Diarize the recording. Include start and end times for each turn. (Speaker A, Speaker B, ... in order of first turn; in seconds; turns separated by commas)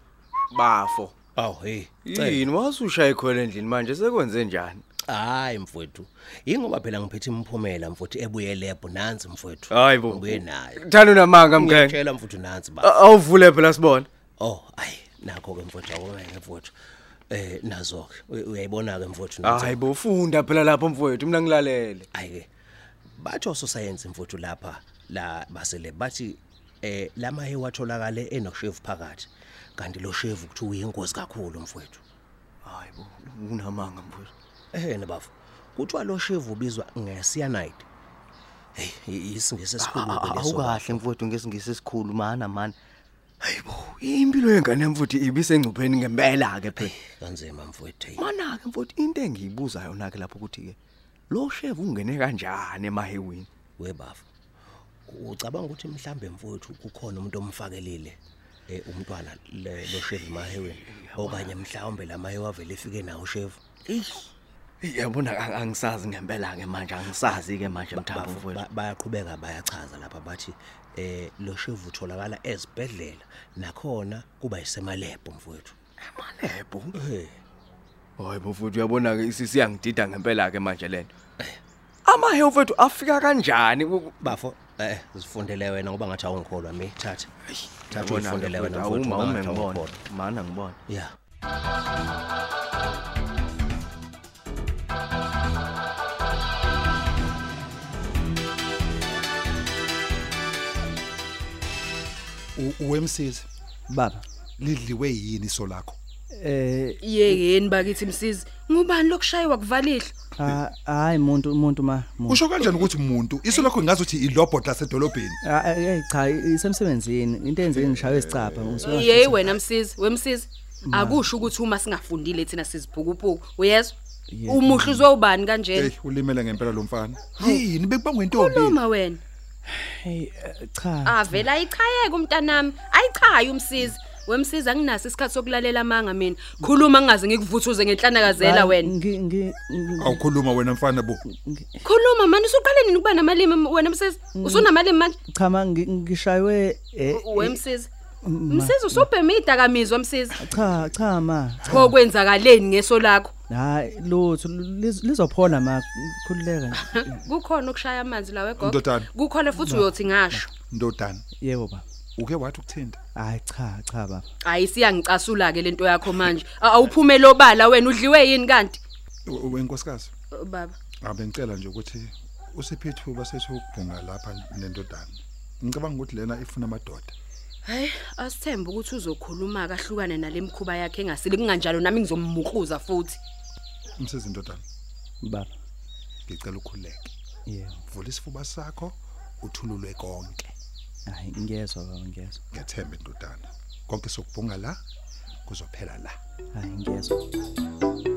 Speaker A: 0.5-1.1, Speaker B: 1.4-2.5, Speaker A: 2.0-4.8, Speaker B: 5.1-10.8, Speaker A: 9.7-12.0, Speaker B: 11.4-13.0, Speaker A: 12.8-14.1, Speaker B: 14.4-16.8, Speaker B: 17.3-19.8, Speaker A: 19.4-22.1, Speaker B: 22.1-22.5, Speaker B: 23.1-32.0, Speaker A: 32.6-34.3, Speaker B: 34.7-37.9, Speaker B: 38.8-41.1, Speaker A: 39.8-42.8, Speaker A: 43.4-47.0, Speaker B: 46.8-48.2, Speaker A: 48.2-50.8, Speaker A: 51.3-53.5, Speaker B: 53.8-54.3, Speaker B: 55.1-63.8, Speaker A: 59.9-61.6, Speaker A: 63.9-64.2, Speaker A: 64.8-68.7, Speaker B: 67.9-75.8, Speaker A: 76.0-77.0, Speaker B: 76.9-77.4, Speaker A: 78.2-81.1, Speaker A: 82.0-84.3, Speaker B: 84.2-87.3, Speaker A: 87.9-90.8, Speaker B: 87.9-90.0, Speaker C: 102.6-103.5, Speaker D: 103.9-104.2, Speaker C: 104.6-106.0, Speaker D: 106.3-107.4, Speaker E: 107.0-110.2, Speaker D: 110.4-112.4, Speaker C: 112.3-115.4, Speaker D: 115.4-119.5, Speaker C: 117.8-119.0, Speaker E: 118.9-124.0, Speaker D: 120.9-121.3, Speaker D: 124.3-125.1, Speaker E: 124.5-125.9, Speaker C: 125.8-128.8, Speaker E: 128.3-129.2, Speaker D: 129.7-131.5, Speaker E: 131.0-138.9, Speaker D: 138.3-140.2, Speaker C: 140.0-141.2, Speaker D: 141.3-141.8, Speaker E: 141.8-145.2, Speaker D: 144.3-144.7, Speaker D: 145.3-147.6, Speaker E: 147.1-147.9, Speaker D: 148.2-149.1, Speaker E: 148.5-150.4, Speaker D: 150.4-151.9, Speaker E: 151.7-153.3, Speaker D: 153.5-157.2, Speaker E: 156.8-160.5, Speaker C: 158.6-159.1, Speaker D: 159.6-160.5, Speaker C: 160.7-161.2, Speaker D: 161.4-161.8, Speaker C: 162.2-163.0, Speaker D: 163.2-164.2, Speaker E: 164.4-168.8, Speaker C: 169.3-170.1, Speaker E: 170.3-170.8, Speaker C: 171.1-177.2, Speaker E: 177.6-183.2, Speaker C: 184.0-184.6, Speaker D: 185.2-185.5, Speaker C: 186.3-187.1, Speaker D: 187.5-187.8, Speaker C: 187.9-190.5, Speaker D: 191.1-192.4, Speaker C: 192.5-194.8, Speaker C: 195.5-196.2, Speaker D: 196.5-197.2